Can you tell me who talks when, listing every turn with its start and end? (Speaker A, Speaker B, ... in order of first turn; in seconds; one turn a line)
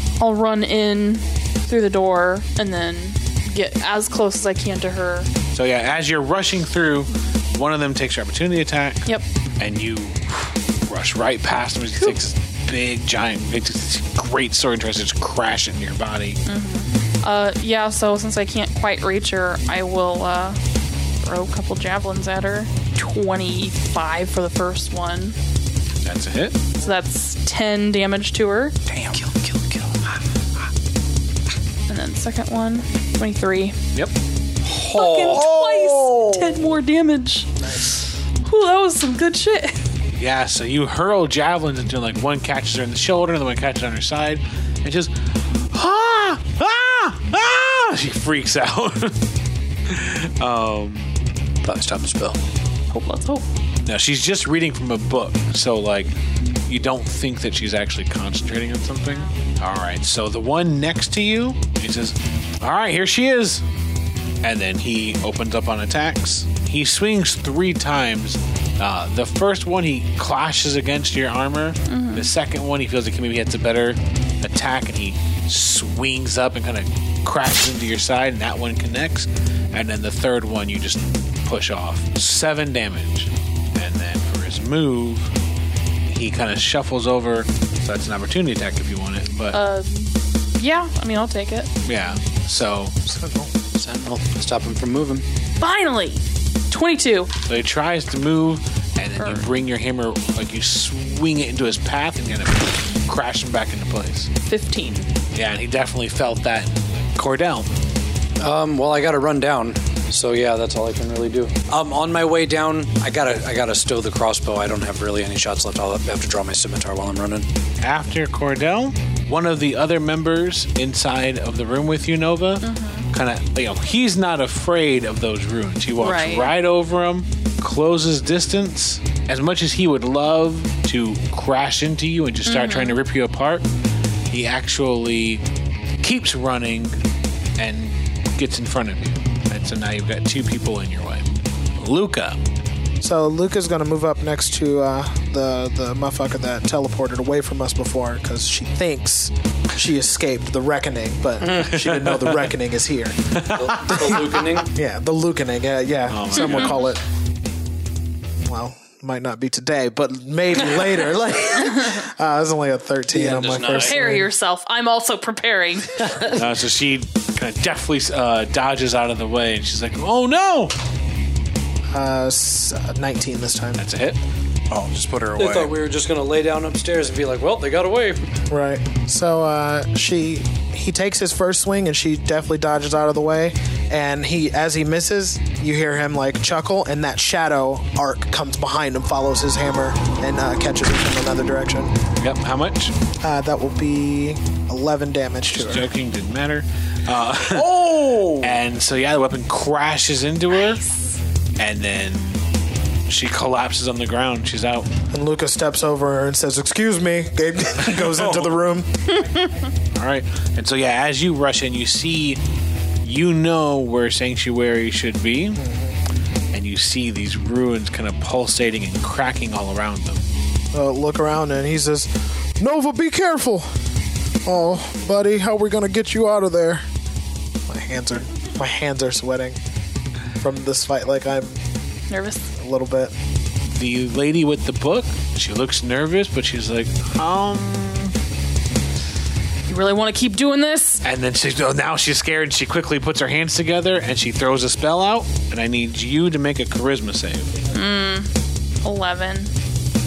Speaker A: 0.2-5.3
Speaker B: 5.5-9.1
Speaker B: 9.6-16.4
Speaker A: 16.4-20.6
Speaker A: 21.2-25.4
Speaker B: 26.0-26.6
Speaker A: 26.8-28.8
Speaker C: 28.9-29.2
Speaker D: 29.1-30.2
Speaker A: 31.9-33.8
Speaker D: 34.6-35.5
Speaker A: 34.9-39.8
Speaker C: 35.2-36.7
Speaker B: 40.1-49.2
Speaker B: 49.9-51.1
Speaker D: 51.6-52.4
Speaker A: 52.9-53.5
Speaker B: 53.8-56.1
Speaker B: 56.6-63.6
Speaker B: 64.4-85.3
Speaker A: 71.9-72.3
Speaker B: 86.0-89.6
Speaker A: 89.5-91.7
Speaker B: 91.8-93.0
Speaker E: 93.0-93.5
Speaker D: 93.7-95.2
Speaker A: 95.6-97.3
Speaker B: 97.5-104.3
Speaker A: 99.2-99.5
Speaker A: 104.5-105.1
Speaker B: 105.3-107.7
Speaker D: 108.4-117.5
Speaker B: 117.8-133.7
Speaker A: 122.6-123.1
Speaker A: 126.0-126.5
Speaker A: 132.4-133.0
Speaker B: 134.3-135.4
Speaker B: 136.0-137.0
Speaker B: 137.6-142.4
Speaker E: 143.0-153.3
Speaker B: 151.6-152.5
Speaker B: 153.3-154.2
Speaker D: 153.5-154.7
Speaker E: 154.0-157.0
Speaker B: 156.1-156.8
Speaker A: 156.4-156.8
Speaker E: 158.4-164.3
Speaker A: 161.6-162.0
Speaker D: 163.1-164.0
Speaker A: 163.7-166.4
Speaker B: 166.2-170.7
Speaker E: 171.9-173.8
Speaker B: 173.8-174.2
Speaker C: 174.7-175.8
Speaker D: 175.3-178.3
Speaker E: 178.5-192.0
Speaker B: 192.2-192.9
Speaker E: 193.2-195.9
Speaker B: 195.5-200.8
Speaker C: 197.4-198.6
Speaker A: 200.5-201.2
Speaker B: 201.6-202.4
Speaker B: 203.1-204.9
Speaker E: 205.1-209.0
Speaker A: 209.2-209.5
Speaker B: 209.9-212.4
Speaker B: 213.0-215.6
Speaker E: 215.5-216.0
Speaker B: 216.5-220.2
Speaker E: 220.7-223.7
Speaker E: 224.4-226.8
Speaker E: 227.7-229.6
Speaker E: 230.4-231.6
Speaker A: 232.1-232.5
Speaker E: 232.6-233.1
Speaker B: 233.7-238.2
Speaker A: 239.7-241.0
Speaker B: 241.0-247.5
Speaker A: 247.7-248.3
Speaker A: 248.8-249.5